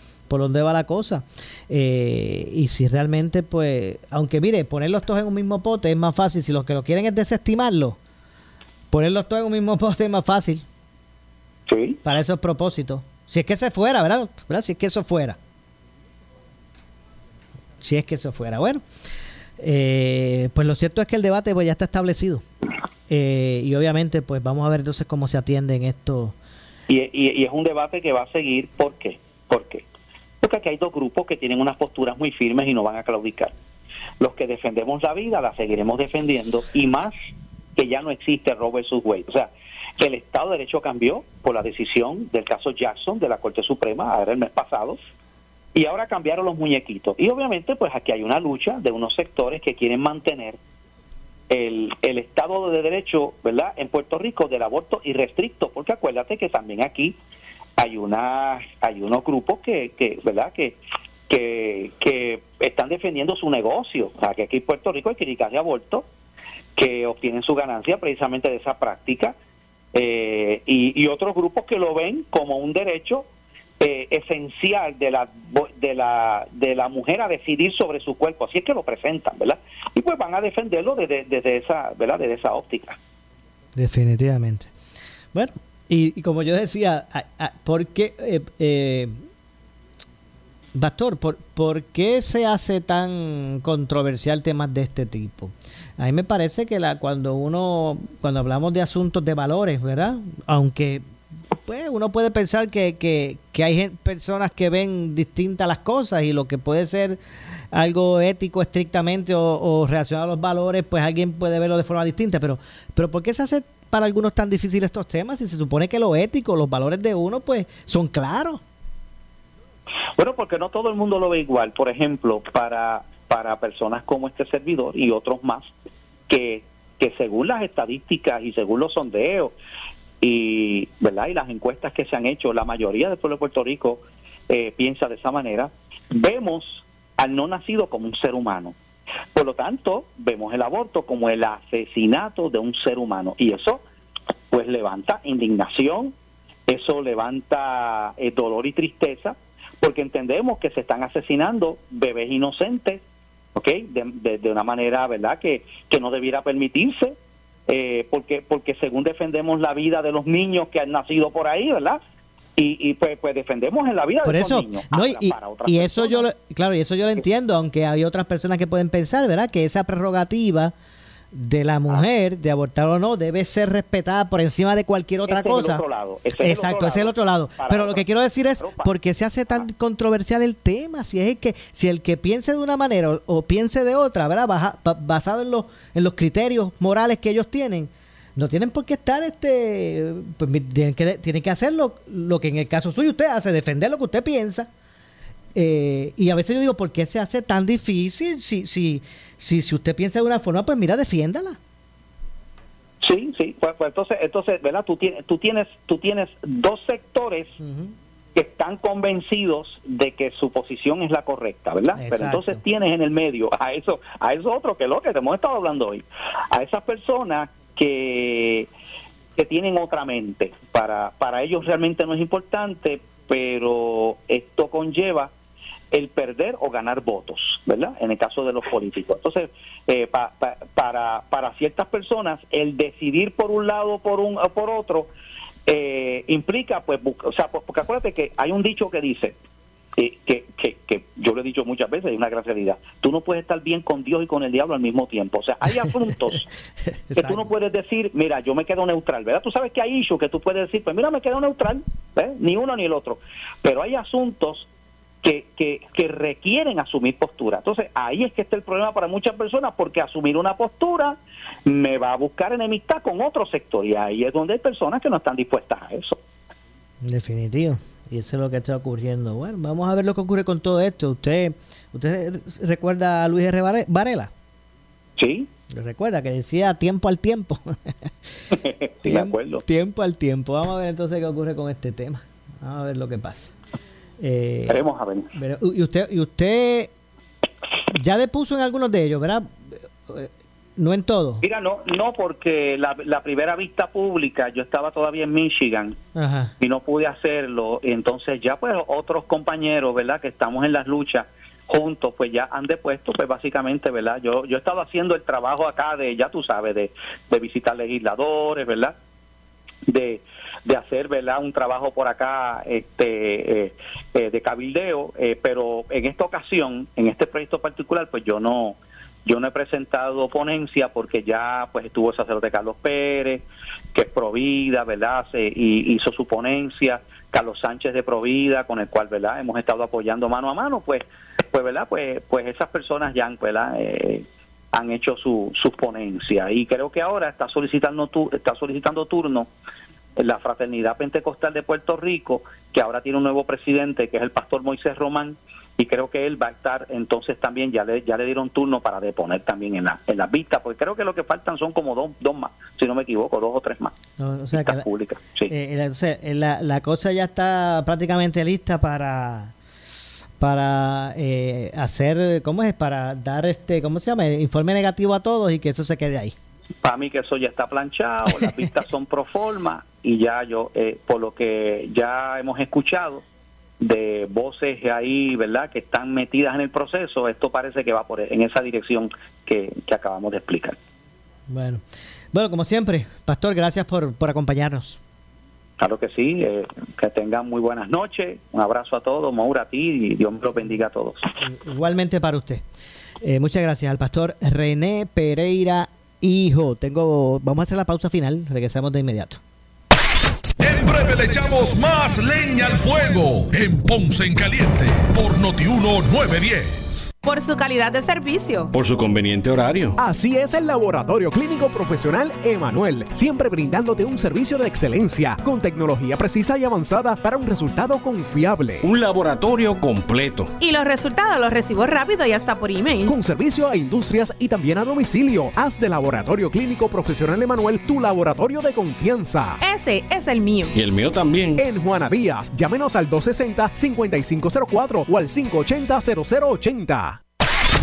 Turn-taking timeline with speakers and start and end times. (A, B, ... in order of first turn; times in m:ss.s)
0:00.3-0:08.0 A
0:08.9-0:10.6 A
0:11.7-0:12.0 B
0:12.0-0:15.4 A
0:17.8-0:18.8 A
0:19.6-0:22.4 A
0:23.1-0:26.3 A
0:26.9-0:29.8 B
0:30.4-0:33.5 B
0:34.2-0:37.1 B
0:37.8-0:45.0 B
0:45.7-0:50.6 B
0:51.5-0:57.2 B
0:57.8-1:00.8 B
1:01.3-1:06.0 B
1:06.8-1:09.3 B
1:09.9-1:13.3 B
1:13.8-1:23.0 B
1:23.8-1:24.7 A
1:25.3-1:29.2 A
1:30.7-1:41.0 A
1:41.6-1:47.2 A
1:47.7-1:58.6 A
2:00.2-2:05.7 B
2:06.3-2:09.5 B
2:10.2-2:18.7 B
2:19.3-2:23.8 B
2:24.5-2:26.1 B
2:26.7-2:33.0 B
2:33.5-2:37.2 B
2:37.7-2:42.0 B
2:42.6-2:46.3 B
2:44.2-2:50.7 A
2:51.3-2:55.8 A
2:55.3-2:58.0 B
2:56.3-3:14.7 A
2:58.6-2:58.9 B
3:15.5-3:21.6 A
3:23.0-3:27.6 B
3:27.6-3:27.9 A
3:28.3-3:38.7 B
3:31.9-3:32.6 A
3:39.4-3:45.3 B
3:45.9-3:55.1 B
3:55.7-3:59.4 B
4:00.0-4:06.5 B
4:06.8-4:07.5 A
4:07.2-4:14.7 B
4:15.2-4:26.2 B
4:27.0-4:34.3 A
4:35.2-4:35.5 B
4:35.7-4:38.1 A
4:38.5-4:39.6 B
4:39.0-4:43.5 A
4:44.2-4:46.9 A
4:44.7-4:45.3 B
4:47.9-4:49.6 A
4:50.1-4:51.4 A
4:51.4-4:56.0 B
4:56.1-4:56.5 A
4:56.6-5:08.9 B
5:09.9-5:39.5 B
5:40.2-5:53.9 B
5:54.2-5:54.8 A
5:54.5-5:55.5 B
5:55.5-5:59.5 A
6:00.4-6:06.3 A
6:06.8-6:13.2 B
6:13.8-6:20.8 B
6:21.5-6:25.0 A
6:25.8-6:31.2 B
6:31.4-6:32.6 A
6:33.2-6:39.4 A
6:40.6-6:47.1 C
6:47.2-6:48.7 D
6:48.7-6:50.0 E
6:50.0-6:58.8 F
6:58.8-7:00.5 E
7:00.6-7:03.1 D
7:03.1-7:09.6 F
7:09.6-7:10.7 D
7:10.7-7:11.6 E
7:11.6-7:17.2 F